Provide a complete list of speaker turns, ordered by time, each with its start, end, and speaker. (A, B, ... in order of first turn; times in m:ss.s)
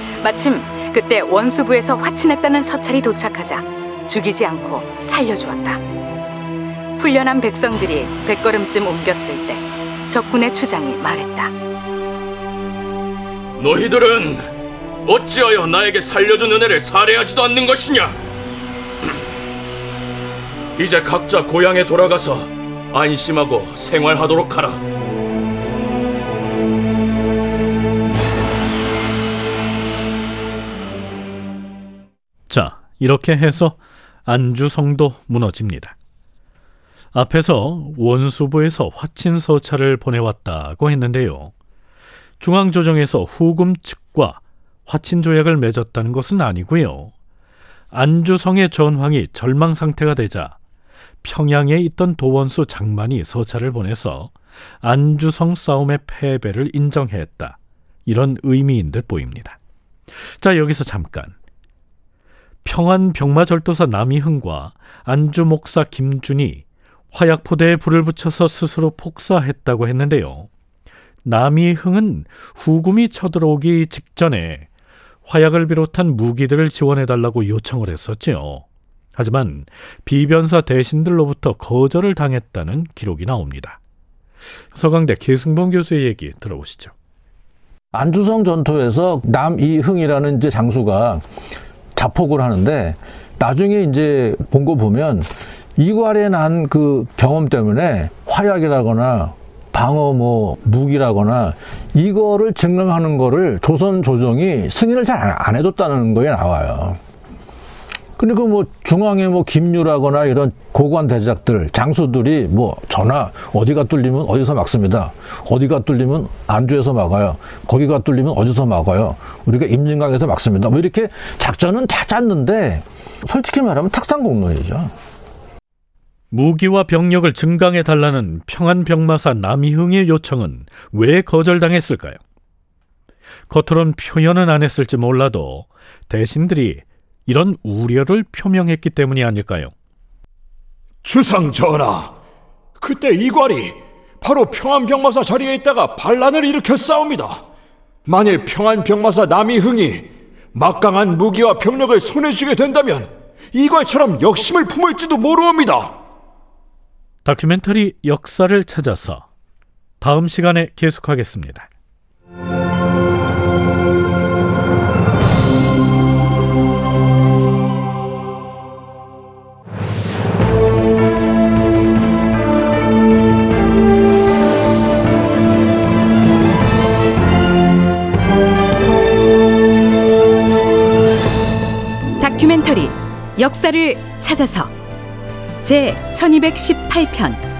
0:00.2-0:05.8 A
0:07.0-0:11.5 A
0:13.6-0:14.5 B
0:15.0-0:18.2 B
0:20.8-0:24.8 B
0:32.5-0:35.9 C
0:37.1-0:41.5 C
0:42.4-0:47.1 C
0:47.9-0:50.6 C
0:51.2-0:59.6 C
1:00.2-1:01.3 C
1:02.6-1:10.5 C
1:11.2-1:14.7 C
1:15.3-1:18.6 C
1:19.2-1:23.8 C
1:24.7-1:26.9 C
1:27.9-1:31.2 D
1:32.0-1:47.0 D
1:48.2-2:04.9 D
2:06.3-2:12.2 C
2:13.5-2:19.7 C
2:21.0-2:22.1 E
2:22.8-2:27.4 E
2:28.1-2:36.0 E
2:37.2-2:39.3 C
2:40.0-2:41.7 C
3:02.2-3:04.7 A
3:05.6-3:07.4 A